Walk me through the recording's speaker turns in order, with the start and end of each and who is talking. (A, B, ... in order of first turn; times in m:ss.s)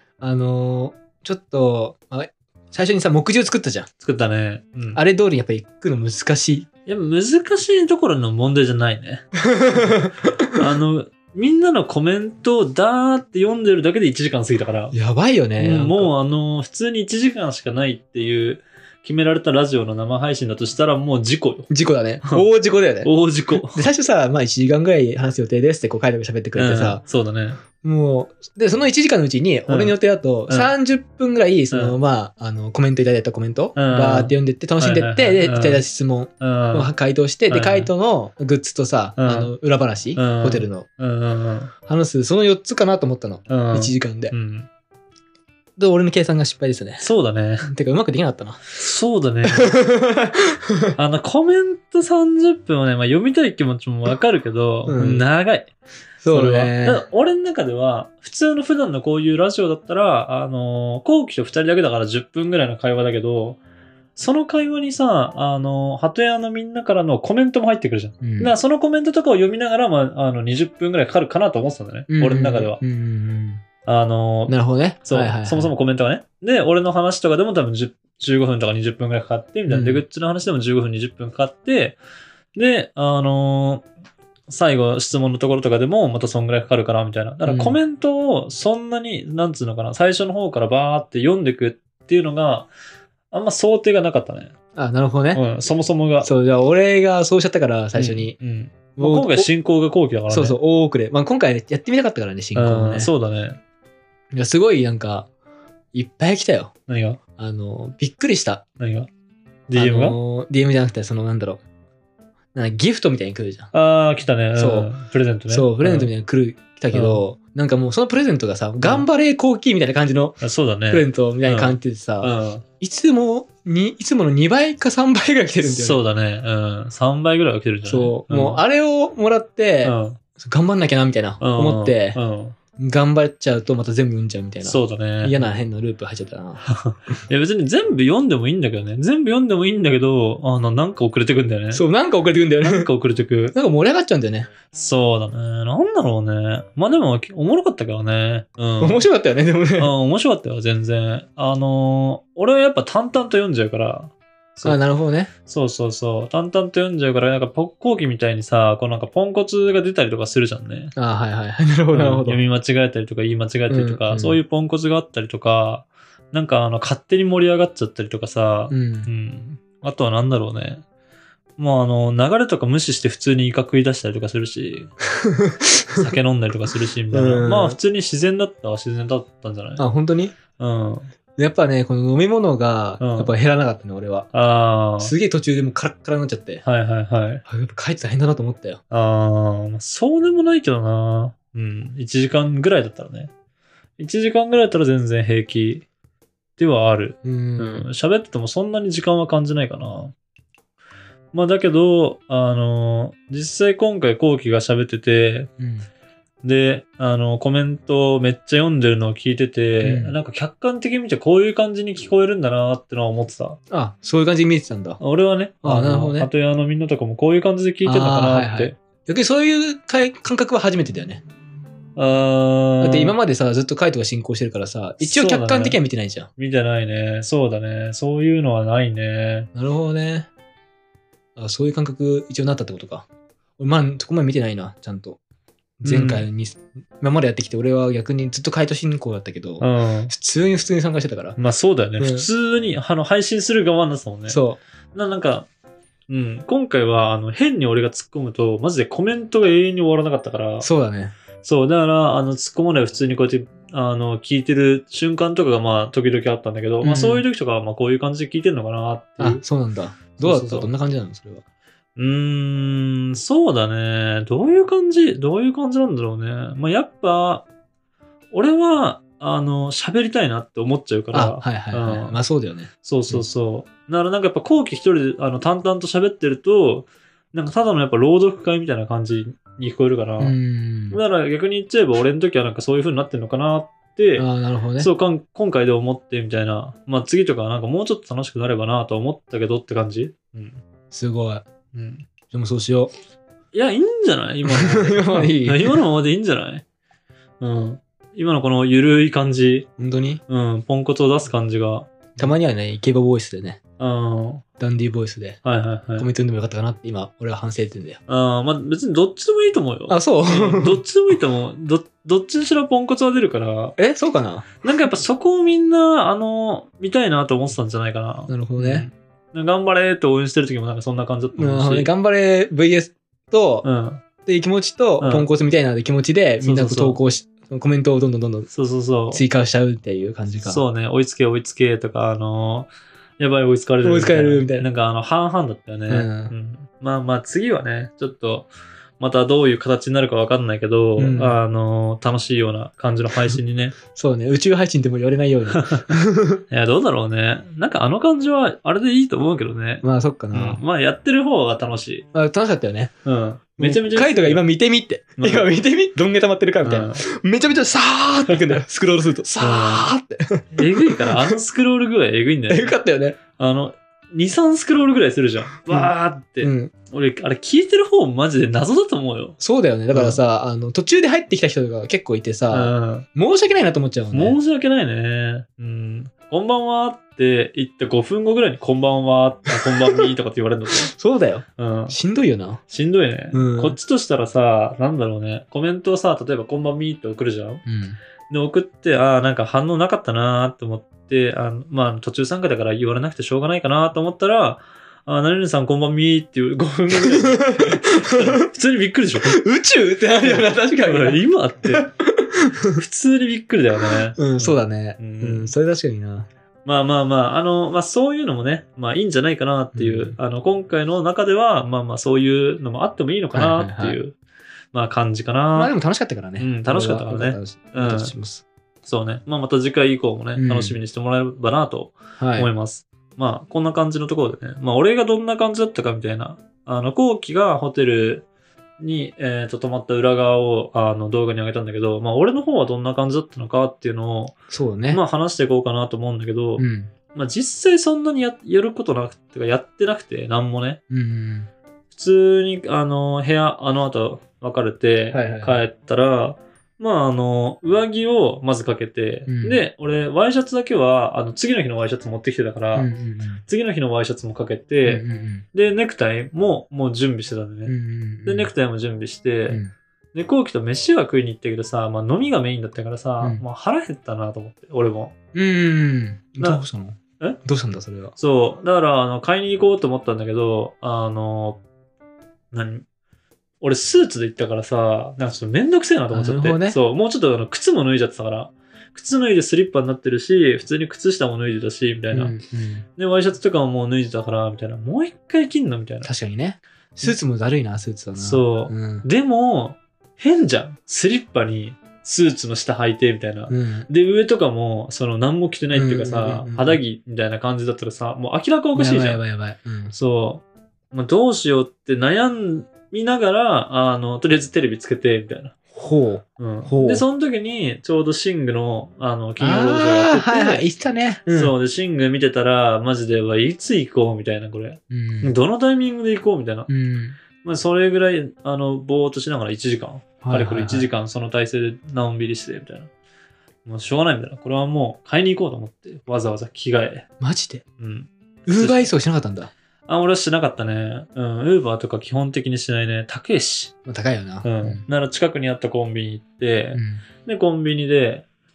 0:00.2-0:03.9 A
0:04.0-0:05.0 B
0:04.9-0:06.6 A
0:06.8-0:14.9 B
0:09.5-0:10.0 A
0:14.9-0:16.1 A
0:15.6-0:21.7 B
0:21.7-0:27.0 A
0:23.0-0:23.8 B
0:26.5-0:27.6 B
0:27.8-0:40.8 A
0:29.7-0:29.9 B
0:31.7-0:32.0 B
0:33.8-0:35.8 B
0:36.4-0:36.9 B
0:37.5-0:37.9 B
0:39.2-0:39.5 B
0:40.2-0:41.7 B
0:41.8-0:44.3 A
0:43.5-0:44.7 B
0:45.8-0:47.1 A
0:47.0-0:47.7 B
0:47.6-0:48.6 A
0:48.7-0:49.8 B
0:49.5-0:51.0 A
0:51.0-0:55.7 B
0:54.9-0:55.2 A
0:56.2-0:57.0 A
0:56.3-1:03.6 B
1:04.2-1:12.8 B
1:08.2-1:08.5 A
1:12.1-1:13.6 A
1:13.8-1:22.0 B
1:14.5-1:15.7 A
1:19.7-1:20.0 A
1:22.5-1:23.8 B
1:24.5-1:32.7 B
1:27.4-1:27.8 A
1:33.3-1:34.5 B
1:34.7-1:35.4 A
1:35.3-1:36.3 B
1:36.2-1:38.4 A
1:37.9-1:40.6 B
1:39.0-1:39.5 A
1:40.3-1:43.1 A
1:42.5-1:43.6 B
1:44.3-1:45.3 A
1:45.9-1:46.7 A
1:46.9-1:47.2 B
1:47.4-1:48.6 A
1:48.8-1:49.1 B
1:49.7-1:50.2 B
1:49.8-1:51.6 A
1:52.5-1:53.7 A
1:53.7-1:56.1 B
1:54.6-1:54.9 A
1:55.5-2:06.0 A
1:56.9-1:57.2 B
2:00.4-2:02.6 B
2:05.6-2:08.6 B
2:07.9-2:12.2 A
2:09.8-2:10.2 B
2:11.4-2:12.6 B
2:12.8-2:17.1 A
2:14.6-2:15.5 B
2:16.7-2:21.8 B
2:21.7-2:22.9 A
2:22.6-2:23.5 B
2:23.5-2:24.5 A
2:24.7-2:29.0 B
2:28.8-2:29.9 A
2:29.8-2:34.8 B
2:34.6-2:35.3 A
2:35.4-2:40.9 B
2:41.0-2:42.4 A
2:41.9-2:50.8 B
2:43.7-2:44.4 A
2:48.7-2:49.1 A
2:51.6-2:54.9 B
2:55.2-2:56.2 A
2:55.9-2:59.8 B
2:57.1-2:57.8 A
2:59.8-3:00.3 A
3:00.6-3:01.1 B
3:01.4-3:04.3 A
3:03.0-3:03.3 B
3:04.3-3:05.1 B
3:05.0-3:06.6 A
3:06.6-3:07.4 B
3:07.5-3:08.8 A
3:08.9-3:13.3 B
3:14.0-3:15.8 B
3:16.6-3:20.1 B
3:17.2-3:17.9 A
3:21.3-3:25.5 B
3:25.6-3:25.9 A
3:26.4-3:33.6 B
3:29.8-3:30.2 A
3:33.7-3:35.0 A
3:35.0-3:38.8 B
3:35.6-3:36.3 A
3:37.8-3:41.2 A
3:42.0-3:43.2 B
3:42.8-3:46.3 A
3:45.0-3:45.8 B
3:46.4-3:49.5 B
3:49.5-3:50.3 A
3:51.4-3:53.0 A
3:53.6-3:55.2 A
3:55.8-4:01.4 A
3:55.8-3:56.2 B
3:59.6-4:00.1 B
4:01.4-4:04.4 B
4:02.0-4:02.3 A
4:04.3-4:04.6 A
4:04.9-4:05.5 B
4:06.1-4:10.7 B
4:10.6-4:11.1 A
4:11.4-4:19.4 B
4:16.8-4:17.2 A
4:19.2-4:21.4 A
4:20.2-4:20.7 B
4:22.0-4:27.4 B
4:28.3-4:32.2 B
4:31.1-4:33.2 A
4:32.8-4:40.4 B
4:40.2-4:41.0 A
4:40.9-4:44.2 B
4:44.2-4:44.9 A
4:44.8-4:50.6 B
4:50.9-4:51.4 A
4:51.7-4:52.0 B
4:52.3-4:52.9 A
4:53.5-4:56.6 B
4:54.5-4:55.8 A
4:57.4-4:59.7 B
4:59.8-5:00.2 A
5:00.3-5:02.3 B
5:02.2-5:03.6 A
5:03.8-5:04.4 B
5:04.6-5:05.4 A
5:05.4-5:06.1 B
5:06.0-5:08.0 A
5:08.1-5:13.8 B
5:09.9-5:10.8 A
5:13.8-5:14.6 A
5:14.6-5:21.9 B
5:18.3-5:18.8 A
5:21.3-5:23.6 A
5:23.6-5:24.0 B
5:24.2-5:28.5 A
5:25.0-5:25.3 B
5:26.4-5:27.0 B
5:28.5-5:29.2 B
5:29.1-5:30.6 A
5:30.4-5:43.8 B
5:33.8-5:34.7 A
5:35.9-5:36.3 A
5:41.0-5:41.4 A
5:43.9-5:46.4 A
5:45.6-5:45.9 B
5:46.5-5:52.0 B
5:49.8-5:50.6 A
5:52.1-5:52.9 A
5:53.0-5:54.4 B
5:53.6-6:01.4 A
5:55.2-5:55.5 B
5:56.6-5:57.0 B
5:59.4-5:59.9 B
6:00.5-6:02.8 B
6:02.5-6:03.2 A
6:03.4-6:09.4 B
6:05.7-6:06.7 A
6:09.4-6:14.4 A
6:09.9-6:10.2 B
6:12.5-6:13.1 B
6:14.1-6:20.9 B
6:19.6-6:20.1 A
6:20.8-6:22.6 A
6:21.6-6:22.0 B
6:22.7-6:27.6 B
6:23.3-6:23.8 A
6:27.6-6:28.0 A
6:28.3-6:39.4 B
6:36.9-6:38.5 A
6:39.2-6:42.8 A
6:40.2-6:41.9 B
6:42.7-6:45.5 B
6:43.9-6:46.3 A
6:46.6-6:54.1 B
6:49.7-6:50.2 A
6:53.3-6:54.0 A
6:54.7-6:55.7 B
6:55.5-6:58.4 A
6:56.4-6:58.1 B
6:58.8-7:08.2 B
7:00.4-7:00.8 A
7:02.2-7:02.5 A
7:08.8-7:14.3 B
7:14.5-7:15.0 A
7:14.9-7:20.8 B
7:16.6-7:16.9 A
7:20.9-7:21.5 A
7:21.9-7:32.9 B
7:25.1-7:25.6 A
7:29.3-7:29.6 A
7:32.7-7:33.4 A
7:33.4-7:37.7 B
7:34.8-7:35.4 A
7:37.6-7:38.5 A
7:38.2-7:39.6 B
7:40.1-7:45.1 B
7:45.3-7:48.1 A
7:48.2-7:51.6 B
7:52.5-7:52.8 B
7:53.6-8:02.3 B
7:56.1-7:56.8 A
8:02.1-8:02.8 A
8:03.0-8:06.1 B
8:06.0-8:09.0 A
8:08.2-8:19.2 B
8:13.5-8:13.9 A
8:15.7-8:16.8 A
8:18.7-8:19.9 A
8:19.9-8:25.5 B
8:25.7-8:27.0 A
8:26.4-8:30.6 B
8:29.4-8:31.5 A
8:31.3-8:36.7 B
8:34.9-8:35.3 A
8:36.7-8:37.2 A
8:37.4-8:42.9 B
8:40.2-8:40.9 A
8:43.6-8:47.1 B
8:47.2-8:47.6 A
8:47.8-8:48.9 B
8:48.5-8:49.5 A
8:49.9-8:53.7 B
8:53.8-8:54.8 A
8:54.4-8:58.2 B
8:56.7-8:57.0 A